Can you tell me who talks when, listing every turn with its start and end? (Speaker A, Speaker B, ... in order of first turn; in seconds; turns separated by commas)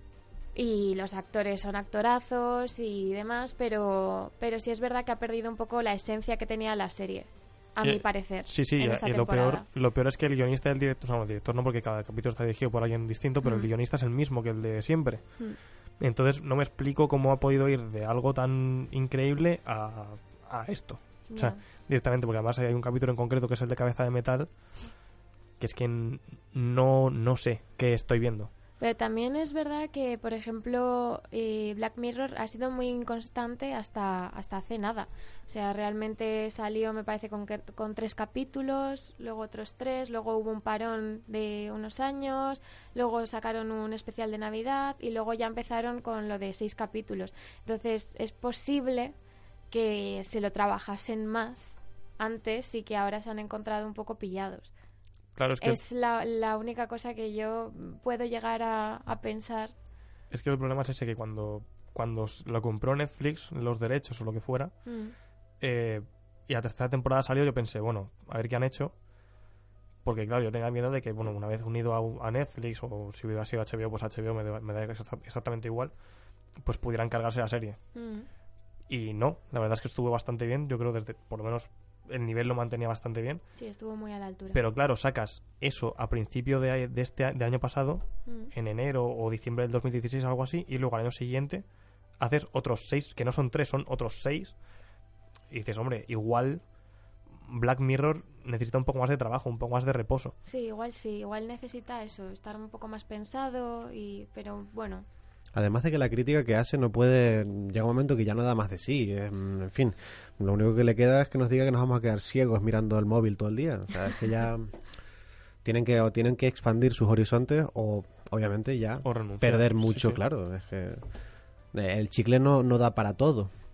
Speaker A: 0.6-9.7, Speaker B: 7.8-15.4, Speaker A: 13.4-13.7, Speaker B: 16.0-24.5, Speaker A: 21.3-21.6, Speaker B: 25.6-28.5, Speaker A: 28.8-49.1, Speaker A: 49.7-54.7, Speaker B: 55.4-55.8, Speaker A: 55.6-59.7, Speaker B: 60.3-64.8, Speaker A: 64.9-65.2, Speaker B: 65.6-69.0, Speaker B: 70.0-76.0, Speaker B: 76.6-77.8, Speaker A: 78.0-78.3, Speaker B: 78.9-83.4, Speaker A: 83.5-84.6, Speaker B: 84.5-91.7, Speaker A: 88.3-88.5, Speaker B: 92.2-94.6, Speaker B: 95.5-96.6, Speaker B: 97.4-100.3, Speaker A: 100.5-105.0, Speaker C: 105.5-114.8, Speaker C: 115.6-121.0, Speaker B: 119.0-120.2, Speaker C: 121.7-123.5